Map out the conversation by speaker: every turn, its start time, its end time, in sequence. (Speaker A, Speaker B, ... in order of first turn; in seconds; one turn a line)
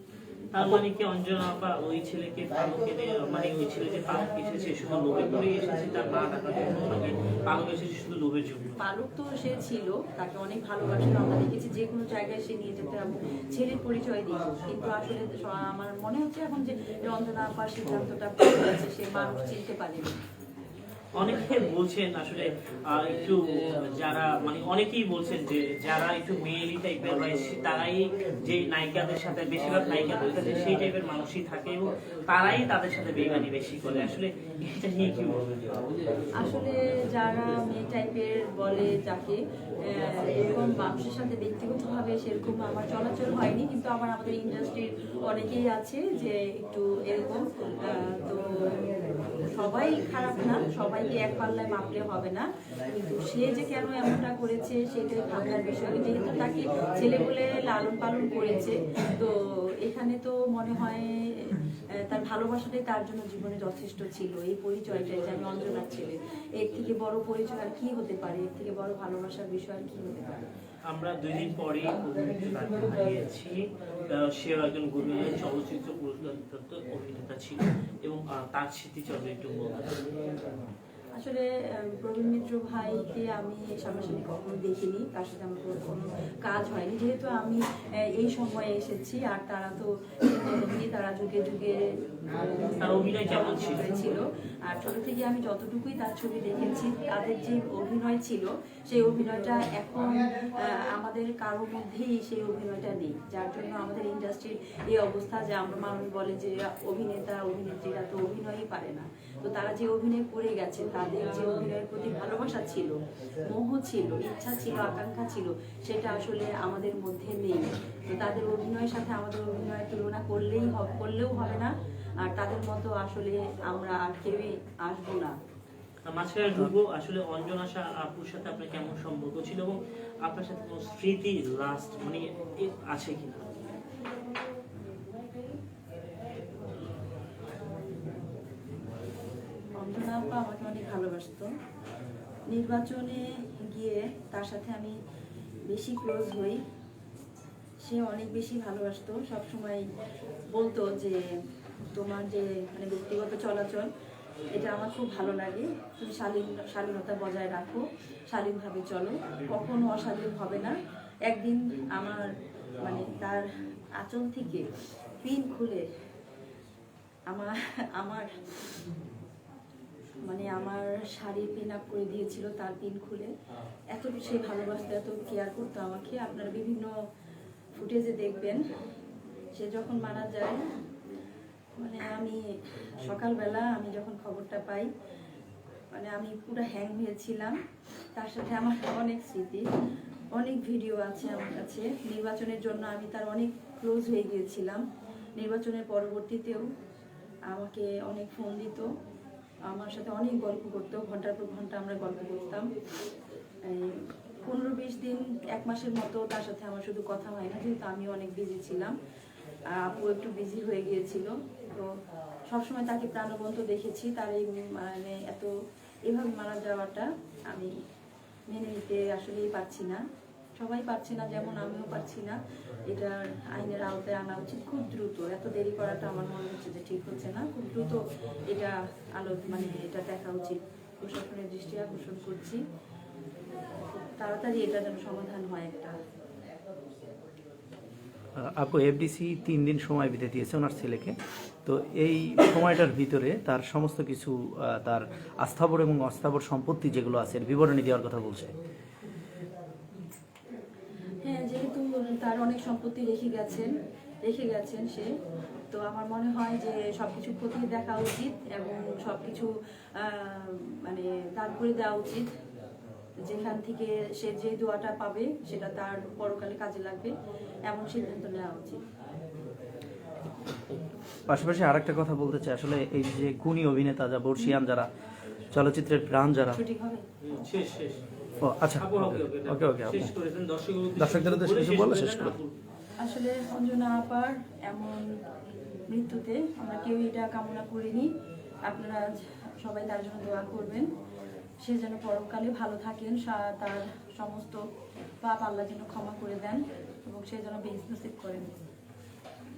Speaker A: 0.5-8.7
Speaker B: 8.8-20.1
Speaker A: 21.2-35.4
Speaker B: 36.4-39.4
Speaker B: 39.9-48.4
Speaker B: 49.5-70.4
Speaker A: 70.9-79.8
Speaker B: 81.2-112.9
Speaker A: 92.7-94.0
Speaker B: 113.5-121.7
Speaker B: 122.2-125.3
Speaker A: 126.1-133.4
Speaker B: 139.8-141.5
Speaker B: 142.5-144.9
Speaker B: 145.7-146.6
Speaker B: 147.8-149.8
Speaker B: 150.5-151.3
Speaker B: 151.9-153.9
Speaker B: 154.5-160.7
Speaker B: 161.3-162.3
Speaker B: 162.8-163.4
Speaker B: 164.0-164.7
Speaker B: 165.2-165.8
Speaker B: 167.3-168.8
Speaker B: 170.3-173.3
Speaker B: 173.9-176.9
Speaker B: 177.8-178.6
Speaker B: 179.6-180.6
Speaker B: 181.8-182.4
Speaker B: 183.0-184.9
Speaker B: 185.9-187.6
Speaker B: 188.1-189.6
Speaker B: 190.3-194.8
Speaker B: 195.4-196.7
Speaker B: 197.5-198.9
Speaker B: 199.7-202.7
Speaker B: 203.7-208.9
Speaker B: 209.8-211.9
Speaker B: 212.5-215.5
Speaker B: 216.1-217.7
Speaker B: 218.5-220.0
Speaker B: 220.6-222.4
Speaker B: 222.9-232.6
Speaker B: 233.9-235.9
Speaker C: 238.4-241.1
Speaker C: 241.6-248.5
Speaker B: 251.2-253.7
Speaker B: 254.2-255.1
Speaker B: 255.7-262.2
Speaker B: 263.3-267.1
Speaker B: 267.7-268.8
Speaker C: 271.3-274.9
Speaker C: 275.5-276.6
Speaker B: 276.5-277.0
Speaker A: 277.2-278.0
Speaker C: 278.4-280.1
Speaker A: 278.7-282.6
Speaker C: 281.0-282.3
Speaker B: 283.0-285.1
Speaker B: 285.9-288.1
Speaker B: 288.7-290.9
Speaker B: 291.6-294.6
Speaker B: 295.2-298.5